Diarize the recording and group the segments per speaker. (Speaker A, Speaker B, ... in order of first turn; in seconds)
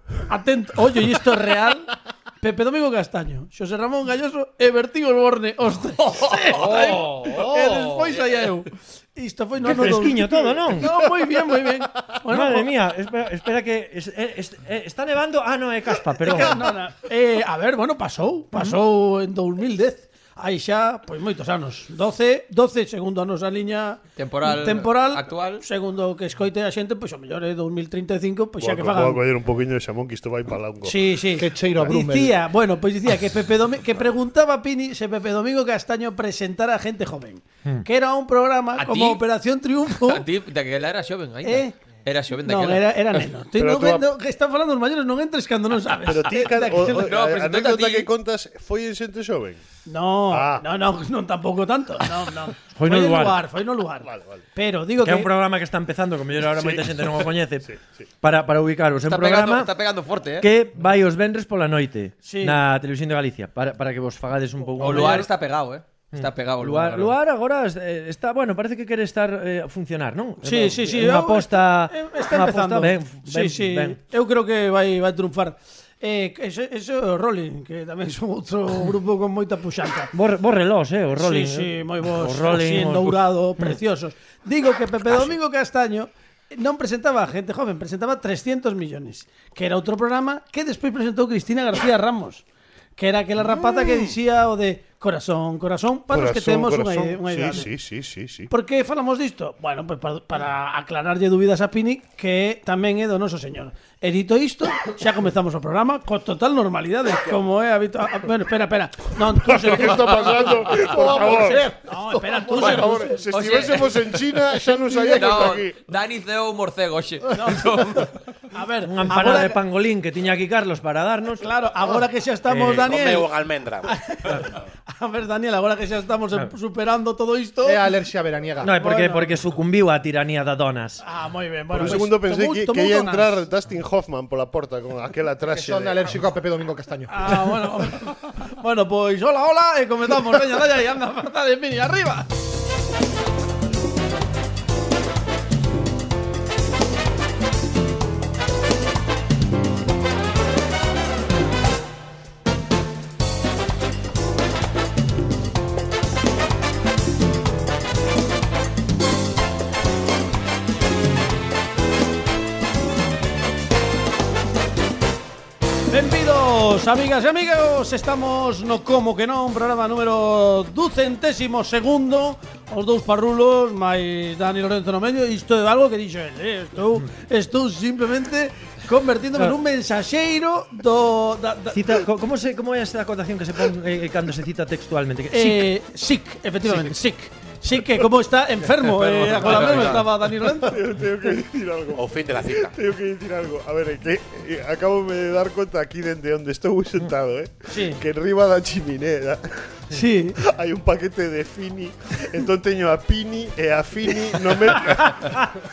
Speaker A: 0.2-12.7, 16.2-29.2, 30.8-40.2, 41.4-41.7, 42.4-47.1, 49.9-55.3, 62.2-62.6, 64.8-65.2, 70.4-80.1, 81.2-92.4, 93.0-97.7, 98.5-113.2, 117.3-119.6, 121.4-123.3, 123.8-127.9, 128.6-129.3, 131.0-133.4, 137.1-142.3, 165.9-182.0, 185.3-190.8, 197.7-198.0, 199.9-200.4
Speaker B: 6.5-8.2, 24.1-25.6, 38.8-39.2, 40.0-43.2, 46.9-48.1, 59.0-60.5, 64.8-67.1, 112.5-114.3, 115.0-118.1, 188.9-190.1
Speaker C: 9.6-10.9, 12.2-16.7, 52.7-53.4, 55.0-59.7, 60.4-65.3, 66.1-74.0, 80.1-83.8, 118.8-121.5, 122.5-122.9, 128.6-131.0, 181.7-185.7
Speaker D: 28.6-31.0, 43.5-44.1, 46.0-49.6, 50.3-50.6, 54.0-54.4, 56.5-57.8, 93.4-94.1, 96.1-98.5, 109.5-111.6, 112.2-115.9, 131.7-136.1, 189.7-199.9, 200.4-205.5
Speaker E: 31.4-32.4, 127.6-128.7, 135.5-137.5
Speaker F: 122.8-123.9, 191.9-192.7